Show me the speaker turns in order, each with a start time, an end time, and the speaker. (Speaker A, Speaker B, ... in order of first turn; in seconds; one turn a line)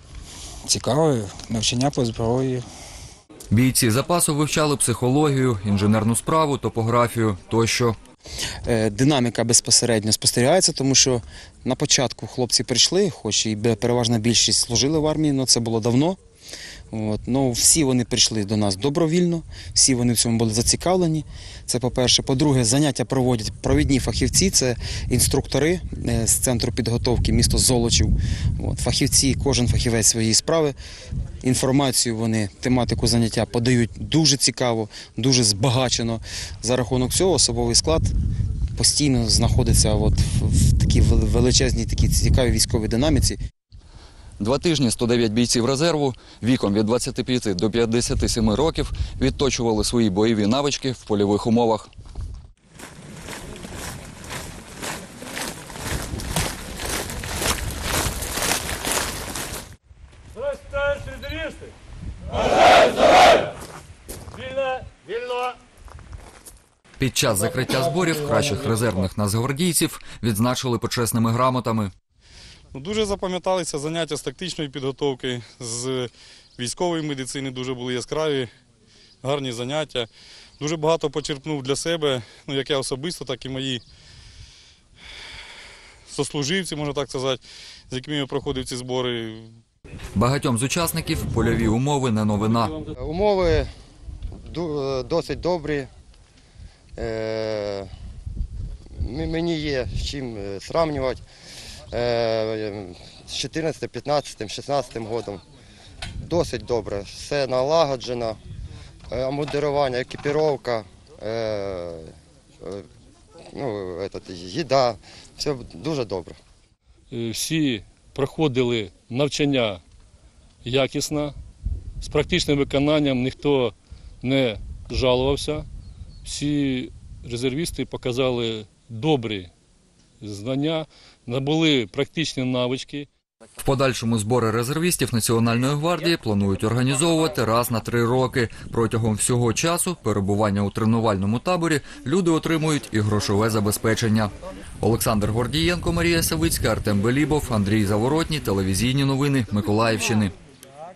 Speaker A: 3.5-8.0
Speaker B: 8.7-16.2
Speaker B: 16.9-30.8
Speaker B: 31.4-38.1
Speaker B: 38.8-43.4
Speaker A: 44.4-51.9
Speaker A: 67.0-71.9
Speaker C: 72.7-78.5
Speaker C: 79.2-80.1
Speaker C: 80.6-83.8
Speaker C: 86.1-89.5
Speaker A: 90.2-92.8
Speaker D: 93.0-93.7
Speaker D: 94.4-95.9
Speaker D: 97.0-97.9
Speaker D: 99.0-101.2
Speaker D: 101.9-105.4
Speaker D: 106.2-108.4
Speaker D: 109.1-112.9
Speaker D: 113.5-116.4
Speaker E: 117.1-119.8
Speaker E: 120.6-121.3
Speaker E: 122.0-125.7
Speaker E: 126.2-129.5
Speaker E: 130.2-133.1
Speaker A: 133.6-150.3